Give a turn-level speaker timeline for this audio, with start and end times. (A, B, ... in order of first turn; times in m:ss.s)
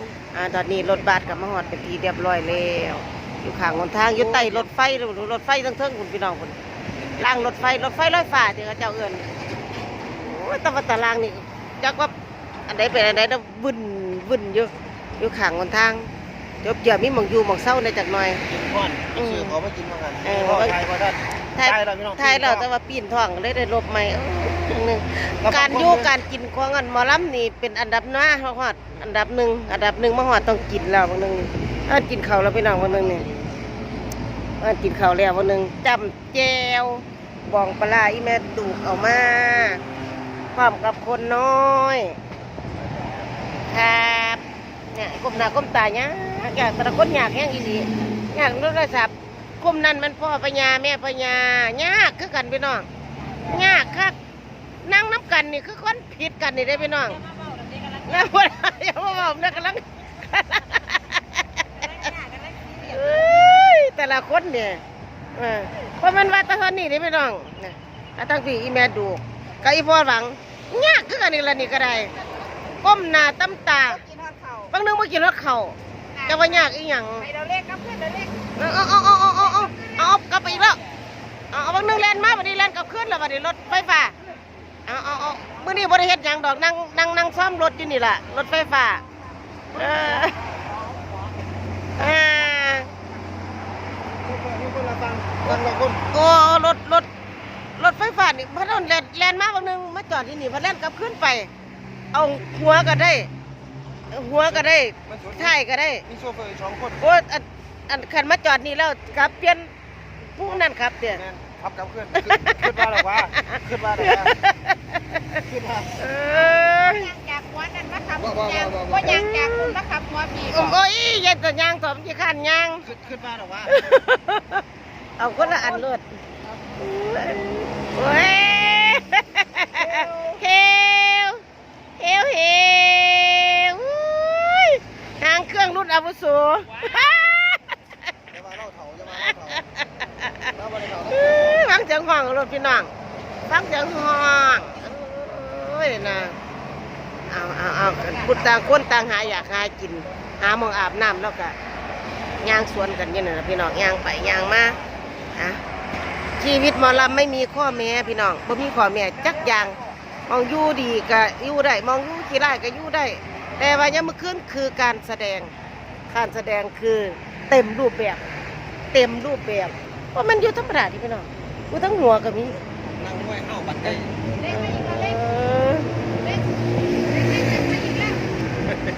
0:00.3-0:06.6 A
0:04.1-0:04.8 B
0:07.1-0:07.8 B
0:07.2-0:09.3 A
0:10.2-0:12.1 A
0:12.7-0:16.1 A
0:16.6-0:18.4 A
0:18.5-0:22.7 B
0:19.1-0:19.6 A
0:20.2-0:20.8 A
0:21.5-0:33.2 A
0:25.4-0:26.1 B
0:34.6-0:39.8 A
0:40.5-0:42.2 A
0:43.7-0:52.9 A
0:53.4-0:54.2 A
0:54.8-0:57.2 A
0:58.0-1:02.1 A
1:02.0-1:02.9 C
1:02.7-1:04.8 A
1:05.3-1:12.2 A
1:12.8-1:14.0 A
1:13.9-1:14.7 C
1:14.7-1:17.3 A
1:16.1-1:16.7 C
1:17.2-1:18.4 C
1:18.6-1:20.8 A
1:19.6-1:20.2 C
1:21.5-1:24.1 A
1:24.9-1:29.0 A
1:29.7-1:30.4 A
1:32.0-1:32.9 A
1:34.2-1:36.0 B
1:36.1-1:37.1 A
1:37.8-1:41.5 A
1:42.1-1:43.3 A
1:44.1-1:46.0 A
1:44.5-1:45.6 B
1:46.1-1:47.0 B
1:47.0-1:49.7 A
1:50.4-1:51.2 A
1:51.1-1:54.4 B
1:52.2-1:55.4 A
1:55.4-1:56.0 B
1:56.0-1:57.1 A
1:56.5-2:00.8 C
1:59.0-1:59.8 A
2:00.5-2:02.9 A
2:02.8-2:04.0 B
2:03.7-2:04.6 A
2:05.2-2:06.0 A
2:06.8-2:11.4 A
2:12.0-2:17.7 A
2:18.3-2:19.7 B
2:19.1-2:20.5 A
2:20.5-2:21.7 B
2:21.0-2:22.9 A
2:23.5-2:26.3 A
2:27.3-2:31.5 A
2:32.4-2:34.8 A
2:35.4-2:35.6 A
2:36.4-2:39.8 A
2:40.3-2:45.5 A
2:46.1-2:48.2 A
2:48.9-2:52.6 A
2:52.9-2:54.2 B
2:53.8-2:55.9 A
2:54.4-2:55.2 C
2:56.2-2:56.5 C
2:57.0-2:58.2 C